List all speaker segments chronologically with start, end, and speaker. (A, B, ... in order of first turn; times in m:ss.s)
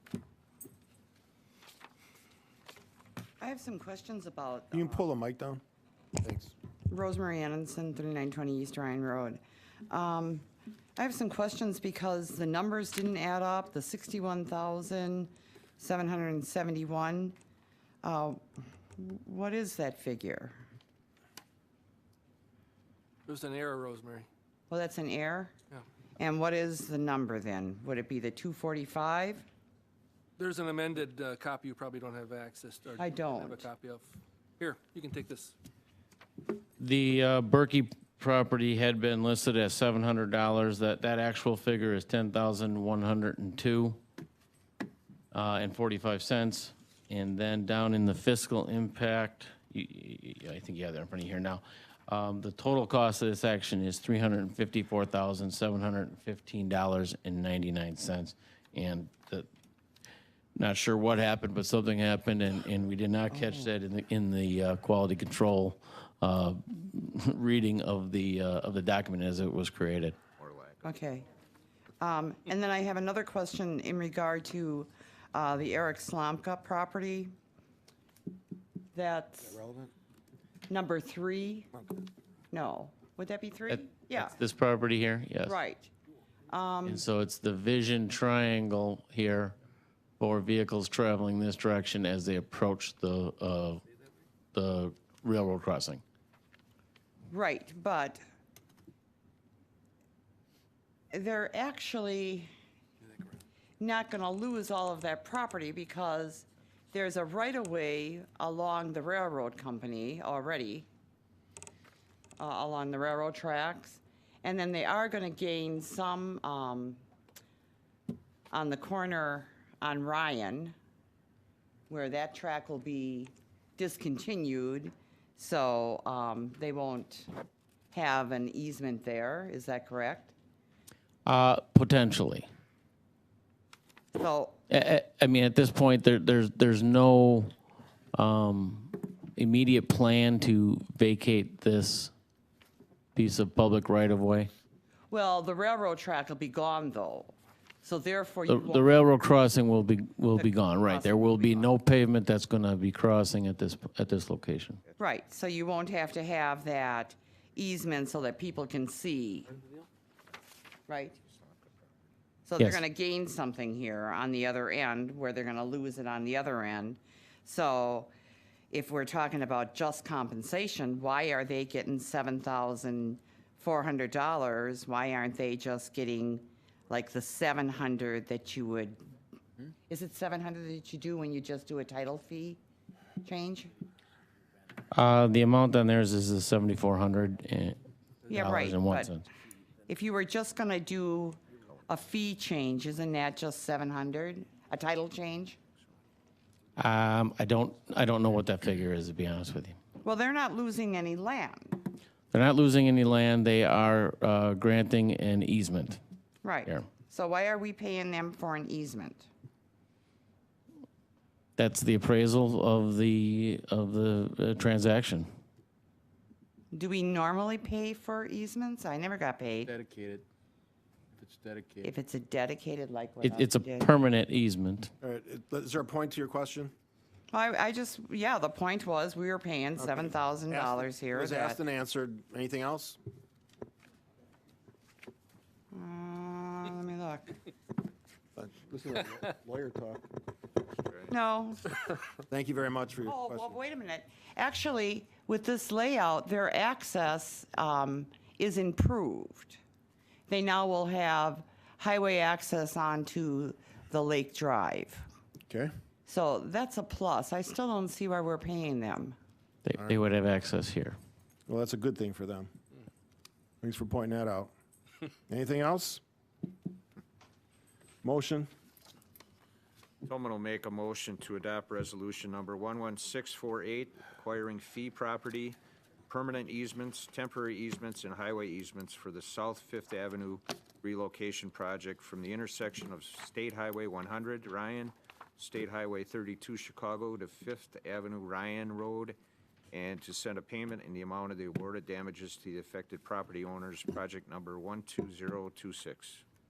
0:03.4-0:05.0 A
0:04.7-0:05.6 B
0:06.9-0:17.4 A
0:18.0-0:18.4 A
0:19.0-0:20.6 A
0:23.3-0:24.3 C
0:24.7-0:25.5 A
0:26.2-0:29.4 A
0:30.4-0:35.5 C
0:33.0-0:33.7 A
0:36.8-0:44.0 D
0:45.3-0:59.5 D
1:00.6-1:10.2 D
1:10.4-1:11.0 E
1:10.8-1:11.2 A
1:12.0-1:17.3 A
1:18.9-1:19.6 A
1:20.7-1:21.7 A
1:22.5-1:24.4 A
1:23.7-1:25.5 D
1:25.4-1:25.9 A
1:26.5-1:27.0 A
1:26.8-1:29.5 D
1:30.2-1:33.8 D
1:34.5-1:36.0 D
1:37.3-1:38.2 A
1:41.1-1:42.5 A
1:43.8-1:50.9 A
1:52.4-1:57.0 A
1:58.5-2:00.7 A
2:01.9-2:07.3 A
2:07.9-2:10.3 A
2:11.2-2:12.5 D
2:14.1-2:14.6 A
2:14.7-2:17.5 D
2:18.1-2:22.1 D
2:23.1-2:24.5 D
2:25.1-2:29.1 A
2:28.5-2:34.8 D
2:30.4-2:31.7 A
2:35.0-2:39.6 A
2:40.9-2:41.2 A
2:42.5-2:48.1 A
2:48.7-2:59.0 A
2:59.9-3:02.6 A
3:03.2-3:03.7 A
3:04.9-3:09.3 D
3:08.3-3:09.1 A
3:09.9-3:15.6 A
3:16.8-3:19.8 D
3:20.0-3:21.8 A
3:22.3-3:26.0 D
3:26.4-3:29.3 A
3:31.6-3:35.3 D
3:36.7-3:39.7 A
3:39.6-3:40.2 F
3:41.2-3:41.9 F
3:41.8-3:43.9 A
3:43.2-3:44.9 D
3:45.0-3:46.7 B
3:47.3-3:51.6 A
3:49.8-3:53.0 B
3:55.7-3:57.4 A
3:58.7-4:00.0 F
4:00.8-4:01.1 E
4:01.1-4:01.7 A
4:02.3-4:03.6 B
4:03.0-4:09.6 A
4:10.3-4:15.1 A
4:16.1-4:19.2 A
4:19.6-4:21.0 D
4:21.5-4:22.5 B
4:23.6-4:24.5 B
4:25.3-4:26.0 B
4:28.0-4:28.5 B
4:30.0-4:49.2 E
4:49.7-4:56.2 E